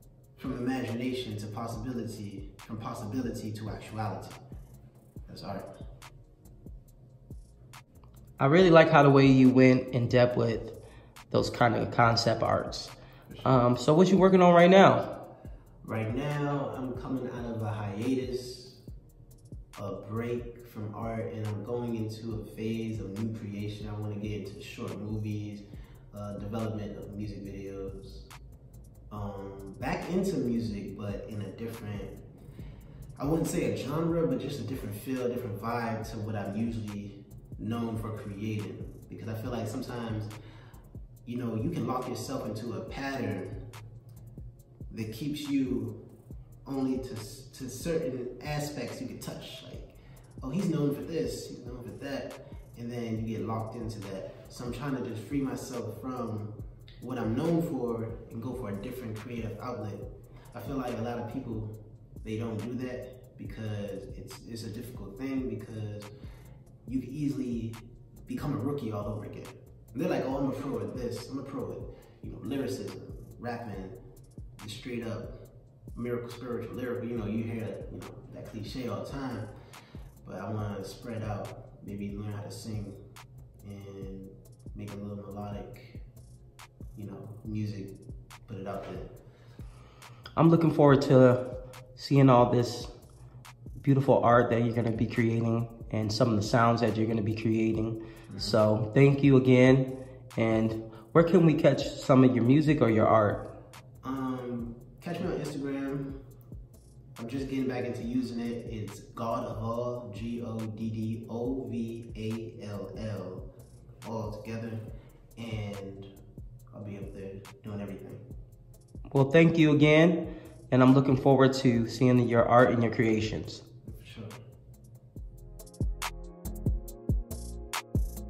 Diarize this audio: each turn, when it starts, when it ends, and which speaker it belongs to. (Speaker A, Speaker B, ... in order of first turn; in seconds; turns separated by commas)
Speaker A: 0.4-4.4, Speaker A: 5.3-5.7, Speaker B: 8.4-10.8, Speaker B: 11.3-15.1, Speaker A: 15.8-18.8, Speaker A: 19.8-28.3, Speaker A: 29.1-32.2, Speaker A: 33.2-40.3, Speaker A: 41.2-43.6, Speaker A: 44.9-46.0, Speaker A: 46.6-66.1, Speaker A: 66.8-74.0, Speaker A: 74.6-75.3, Speaker A: 75.9-79.5, Speaker A: 80.2-83.0, Speaker A: 83.6-86.0, Speaker A: 86.9-87.9, Speaker A: 88.5-89.1, Speaker B: 90.3-91.4, Speaker B: 92.0-92.9, Speaker B: 93.8-103.4, Speaker A: 98.3-98.6, Speaker A: 104.0-106.1, Speaker A: 107.2-113.5, Speaker A: 114.0-114.8, Speaker A: 115.4-116.1, Speaker A: 116.7-118.2, Speaker B: 119.1-123.6, Speaker A: 123.9-124.4